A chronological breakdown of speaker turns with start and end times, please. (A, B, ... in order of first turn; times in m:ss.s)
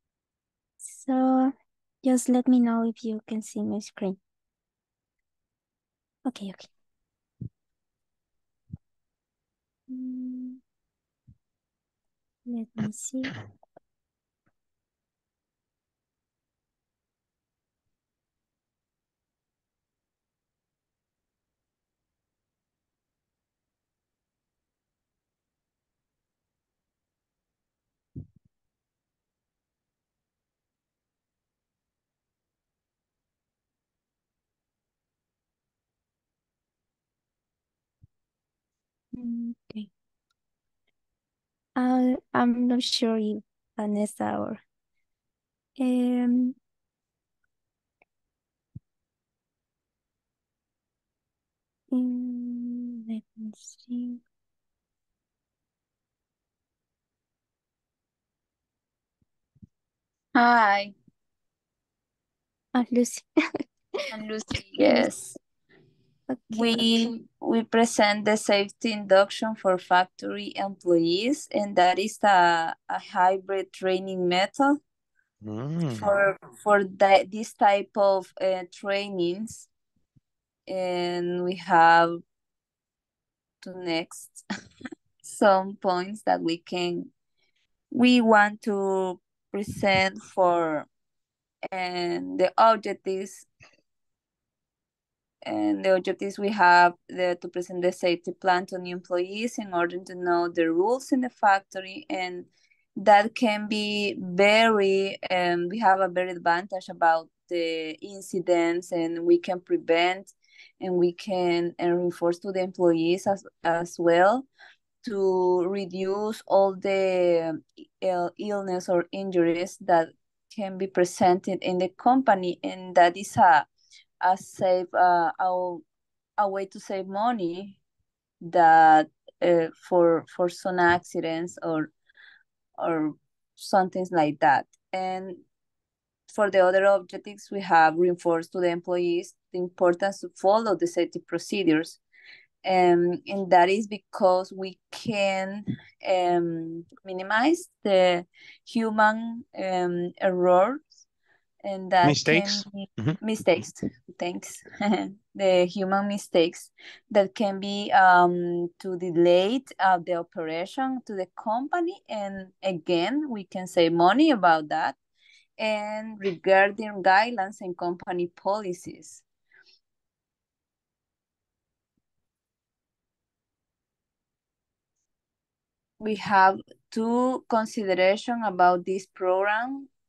0:00.8-0:04.2 A
0:06.3-0:06.7 A
0:09.9-0:10.6 A
0:12.5-0:13.3 A
0:39.1-0:39.9 A
0:41.8-0:44.6 A
0:45.8-0:46.6 A
0:51.9-0:54.2 A
1:00.4-1:00.9 B
1:02.8-1:03.2 A
1:04.1-1:05.4 B
1:04.8-1:05.1 A
1:06.3-1:07.1 A
1:06.5-1:14.8 B
1:15.4-1:16.2 C
1:15.9-1:19.7 B
1:20.7-1:22.2 B
1:23.6-1:24.4 B
1:25.2-1:27.1 B
1:27.9-1:30.9 B
1:31.7-1:33.5 B
1:35.4-1:54.5 B
1:55.0-2:03.7 B
2:04.2-2:05.8 B
2:06.4-2:07.8 B
2:08.4-2:11.9 B
2:12.8-2:15.4 B
2:16.3-2:22.0 B
2:22.6-2:30.9 B
2:31.6-2:45.0 B
2:32.0-2:33.2 C
2:45.6-2:49.2 B
2:56.0-2:59.9 B